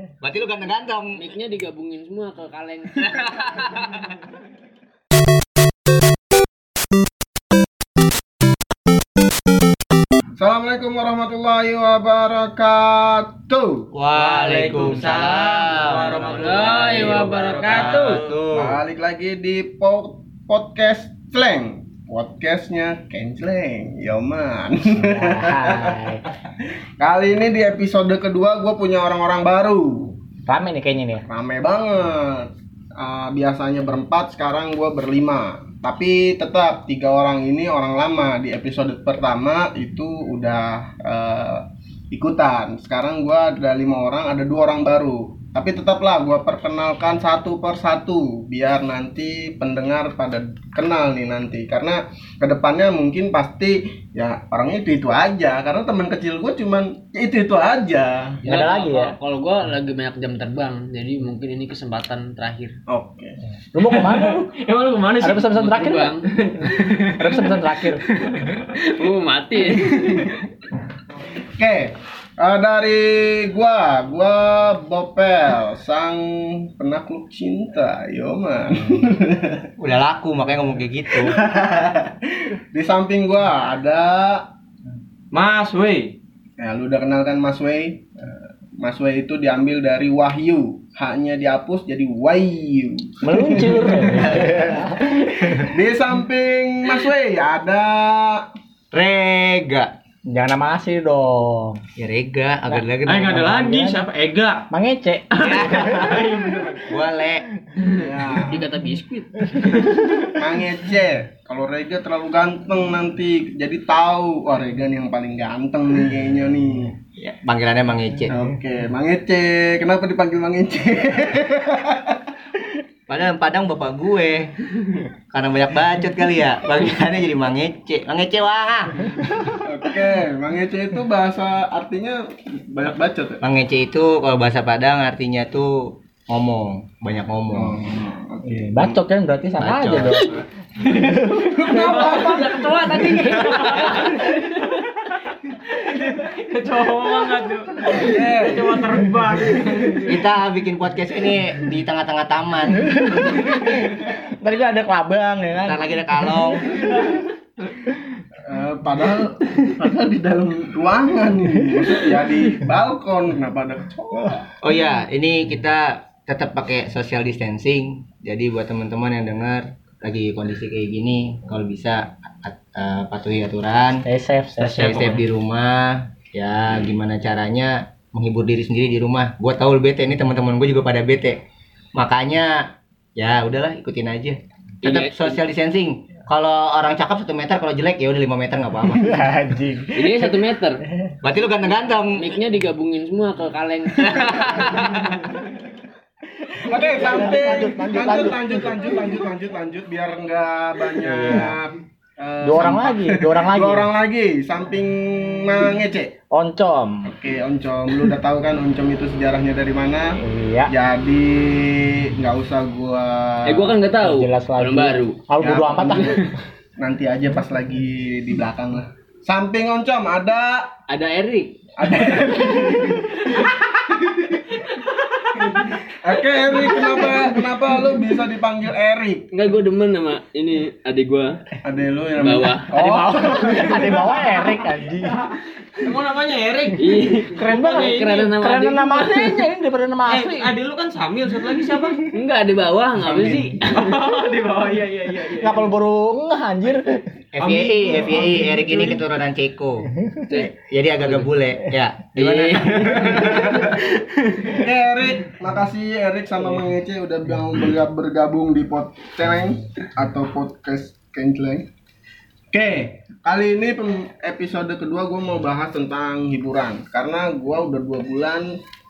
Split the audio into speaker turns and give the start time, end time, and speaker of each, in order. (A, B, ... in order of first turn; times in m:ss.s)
0:00.2-0:01.2 A
0:01.2-0:03.8 B
0:10.4-0:13.9 C
0:13.9-0:18.7 A
0:14.2-0:18.4 D
0:16.0-0:18.2 B
0:18.5-0:26.2 C
0:25.0-0:26.2 E
0:27.0-0:30.1 C
0:30.5-0:31.2 E
0:31.2-0:58.4 C
0:58.4-0:59.1 E
0:58.4-1:02.8 B
1:02.9-1:03.4 C
1:03.7-1:04.5 E
1:03.8-1:05.6 D
1:05.2-1:06.1 E
1:05.5-1:06.2 B
1:06.3-1:07.6 D
1:06.7-1:08.0 E
1:08.3-1:10.3 B
1:09.8-1:10.4 C
1:11.4-1:19.7 C
1:19.8-1:21.4 A
1:21.2-1:24.5 C
1:25.3-1:26.2 D
1:26.6-1:34.8 C
1:33.2-1:35.6 E
1:34.1-1:34.6 A
1:35.5-1:38.4 C
1:38.9-1:39.9 A
1:40.3-1:41.8 E
1:42.0-1:43.5 A
1:42.7-1:44.0 E
1:43.0-1:44.7 D
1:44.7-1:46.3 E
1:45.3-1:46.8 D
1:46.9-1:47.4 A
1:47.9-1:48.6 C
1:48.4-1:49.4 B
1:49.8-1:50.1 D
1:50.4-1:57.0 C
1:57.2-1:58.3 A
1:58.3-2:02.3 C
2:03.1-2:04.5 A
2:05.3-2:09.5 A
2:09.6-2:13.4 C
2:13.4-2:17.8 A
2:17.5-2:19.0 C
2:18.5-2:20.4 E
2:19.6-2:20.3 A
2:20.9-2:21.5 E
2:21.1-2:30.1 D
2:21.4-2:22.9 C
2:21.6-2:24.1 B
2:27.9-2:28.8 C
2:30.1-2:33.0 A
2:32.9-2:37.2 E
2:35.6-2:36.7 A
2:38.4-2:44.4 C
2:44.6-2:54.0 A
2:54.0-2:55.0 E
2:54.6-3:01.4 A
2:54.7-2:55.2 D
3:02.0-3:09.2 A
3:04.8-3:05.4 B
3:08.9-3:10.5 E
3:10.0-3:10.8 B
3:11.2-3:12.4 A
3:12.1-3:15.0 B
3:14.2-3:14.9 A
3:16.4-3:19.0 E
3:16.6-3:26.1 C
3:21.0-3:21.6 E
3:22.4-3:23.9 E
3:26.3-3:27.1 E
3:27.0-3:33.8 C
3:30.2-3:30.7 E
3:33.5-3:35.3 B
3:34.0-3:36.3 E
3:35.4-3:40.7 C
3:35.8-3:36.3 B
3:40.9-3:41.6 B
3:41.8-3:43.6 C
3:45.5-3:49.3 C
3:46.8-3:47.3 B
3:49.3-3:51.4 B
3:51.6-3:54.5 C
3:52.2-3:52.7 B
3:52.7-3:55.2 E
3:55.8-3:58.3 D
3:56.8-3:59.5 B
3:57.3-4:00.5 E
4:00.1-4:02.1 D
4:02.1-4:04.0 B
4:03.0-4:03.6 C
4:03.7-4:05.7 D
4:05.3-4:07.0 E
4:07.3-4:13.6 A
4:07.4-4:09.0 D
4:12.2-4:13.4 B
4:14.5-4:21.7 C
4:22.5-4:28.6 C